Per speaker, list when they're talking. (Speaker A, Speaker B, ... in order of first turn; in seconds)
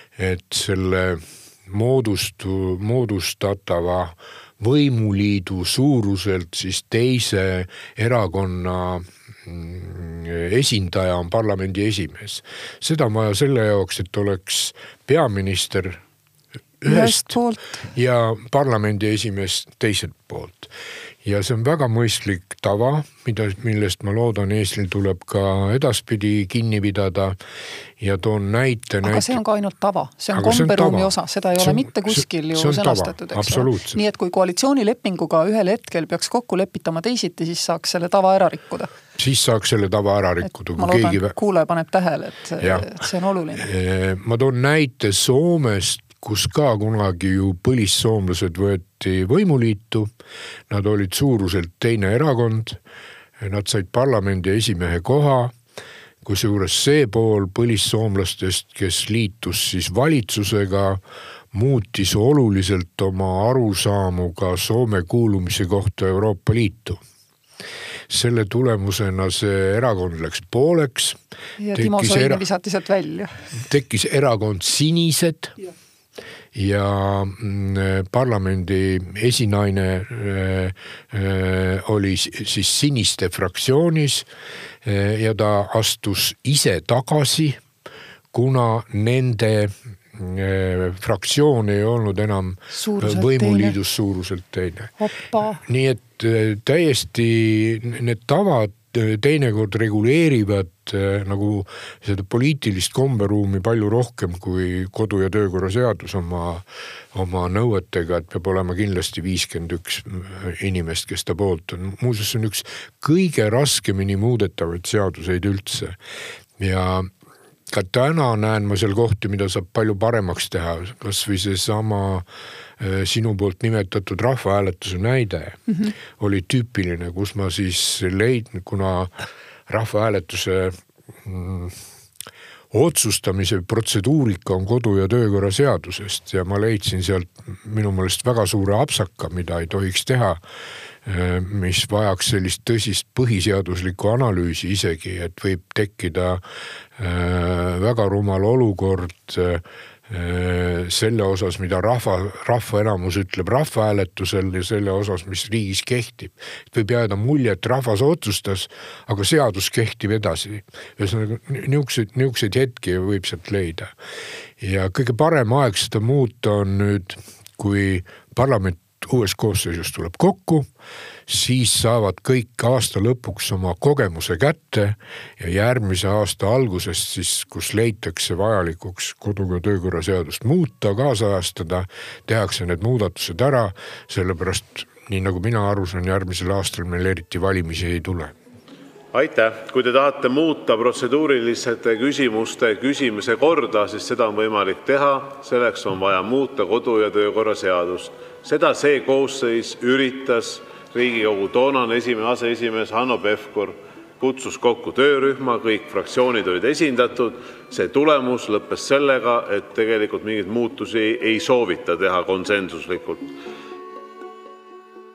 Speaker A: 0.2-16.0, 16.8-17.4, 17.9-20.7, 21.2-27.4, 28.0-29.4, 30.3-34.0, 39.2-41.3, 42.6-42.9, 43.6-50.1, 50.7-52.8, 53.4-55.5, 56.2-61.0, 61.5-67.0, 68.1-71.2, 71.7-72.4, 73.5-75.5, 76.5-84.3, 84.8-87.6, 88.3-94.9, 95.6-116.0, 116.6-117.1, 117.7-122.2, 122.8-129.1, 129.7-131.8, 132.7-140.4, 141.0-146.4, 147.0-163.9, 164.6-170.7, 171.3-188.3
Speaker B: 16.8-17.9, 29.0-38.9, 40.7-43.7, 71.6-73.3, 92.7-93.8, 95.0-95.6, 125.7-125.9
Speaker C: 189.1-213.3